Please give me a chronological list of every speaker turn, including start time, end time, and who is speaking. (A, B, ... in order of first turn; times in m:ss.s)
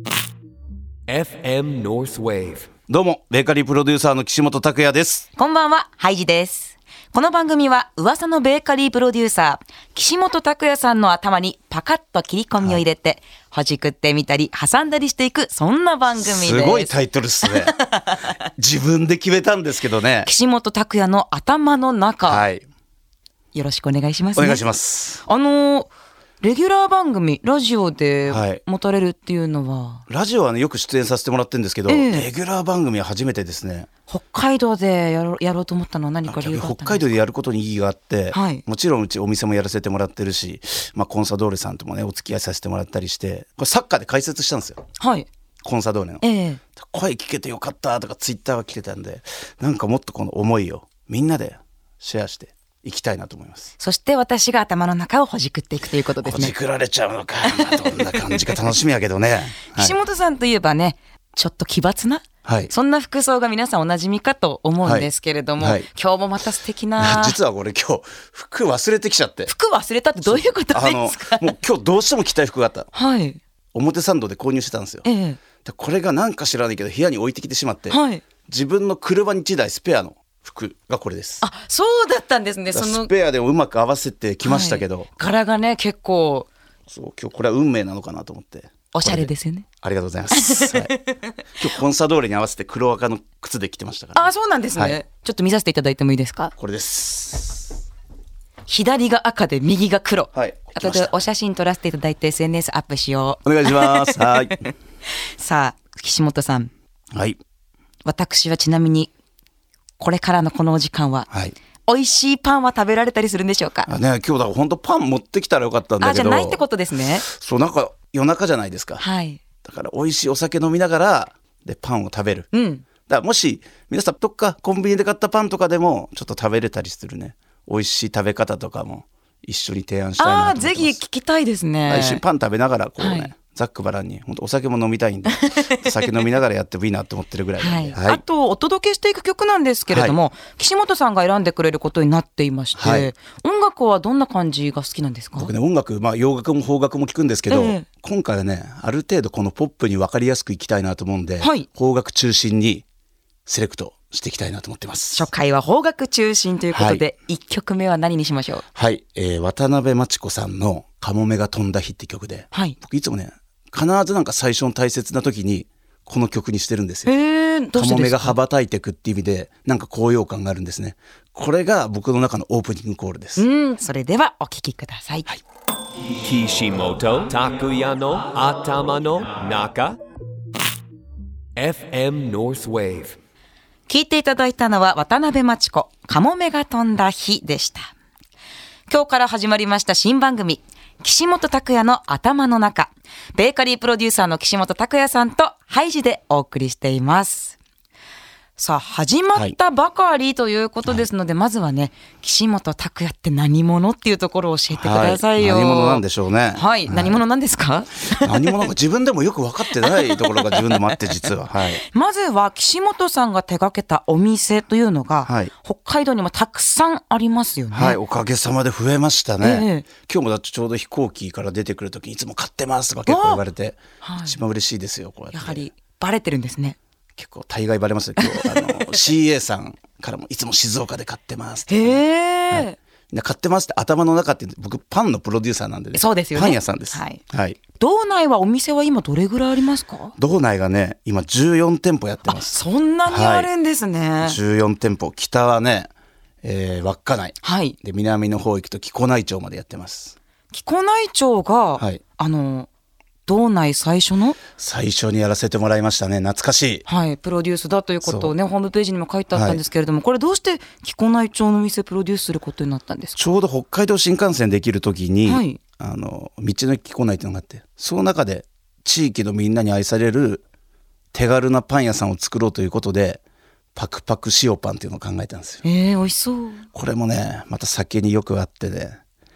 0:01.1-0:02.7 A
0:02.9-0:05.3 B
0:05.4-0:18.4 C
0:16.2-0:17.8 B
0:18.6-0:20.3 B
0:20.2-0:22.5 C
0:22.2-0:22.6 B
0:23.5-0:24.6 C
0:24.4-0:25.2 B
0:25.2-0:30.0 C
0:28.3-0:28.6 B
0:30.1-0:33.9 B
0:31.9-0:32.3 C
0:34.1-0:37.2 C
0:36.2-0:44.8 B
0:38.3-0:38.6 C
0:45.0-0:45.3 C
0:45.6-0:53.7 B
0:46.2-0:46.6 C
0:53.8-0:56.6 C
0:56.2-1:00.0 B
0:57.5-0:58.6 C
0:59.7-1:07.4 C
1:02.4-1:02.7 B
1:04.8-1:05.9 B
1:07.0-1:09.5 B
1:09.5-1:11.6 C
1:10.2-1:12.9 B
1:12.9-1:13.4 C
1:13.7-1:15.1 B
1:15.0-1:15.4 C
1:15.6-1:21.5 B
1:17.9-1:18.2 C
1:21.4-1:23.1 C
1:22.7-1:25.1 B
1:24.4-1:26.5 C
1:26.9-1:29.3 B
1:28.9-1:29.7 C
1:29.8-1:30.9 B
1:30.3-1:31.4 C
1:31.6-1:35.0 B
1:34.2-1:36.5 C
1:36.6-1:37.8 B
1:38.7-1:46.7 C
1:40.3-1:41.2 B
1:43.4-1:44.6 B
1:47.1-1:47.4 B
1:48.0-1:49.1 C
1:50.0-1:51.3 C
1:51.3-1:51.6 B
1:51.9-1:53.9 C
1:53.9-1:56.6 B
1:56.0-1:57.3 C
1:57.2-1:59.0 B
1:59.0-1:59.4 C
1:59.6-2:02.5 B
2:02.5-2:02.8 C
2:03.1-2:11.0 B
2:10.2-2:12.2 C
2:11.9-2:18.2 B
2:13.0-2:13.3 C
2:15.4-2:15.9 C
2:17.6-2:25.5 C
2:19.9-2:20.2 B
2:22.8-2:23.1 B
2:25.4-2:32.8 B
2:27.5-2:27.9 C
2:31.4-2:31.7 C
2:33.5-2:35.3 B
2:35.1-2:38.6 C
2:36.7-2:37.1 B
2:38.8-2:47.1 B
2:42.5-2:42.8 C
2:47.1-2:48.4 C
2:47.7-2:53.4 B
2:53.4-2:55.3 C
2:56.2-3:00.0 A
3:01.6-3:03.2 A
3:03.9-3:07.9 C
3:08.9-3:17.6 C
3:18.6-3:26.0 C
3:24.7-3:27.2 B
3:26.5-3:28.7 C
3:28.2-3:31.8 B
3:29.8-3:31.0 C
3:31.8-3:38.0 C
3:35.2-3:35.5 B
3:37.7-3:45.7 B
3:39.4-3:39.9 C
3:43.1-3:43.4 C
3:44.0-3:44.4 C
3:45.3-3:46.8 C
3:47.2-3:57.6 B
3:48.2-3:48.9 C
3:51.7-3:52.8 C
3:55.9-3:57.2 C
3:57.7-4:00.2 C
4:00.2-4:03.5 B
4:02.3-4:04.4 C
4:04.2-4:05.9 B
4:06.4-4:10.2 B
4:07.4-4:07.8 C
4:10.5-4:12.7 C
4:11.8-4:12.0 B
4:13.3-4:14.4 C
4:14.6-4:16.8 B
4:16.9-4:23.2 C
4:18.0-4:18.3 B
4:19.3-4:19.6 B
4:23.2-4:30.4 B
4:25.3-4:25.6 C
4:31.1-4:33.2 B
4:33.8-4:35.6 B
4:35.6-4:36.6 C
4:36.7-4:39.0 B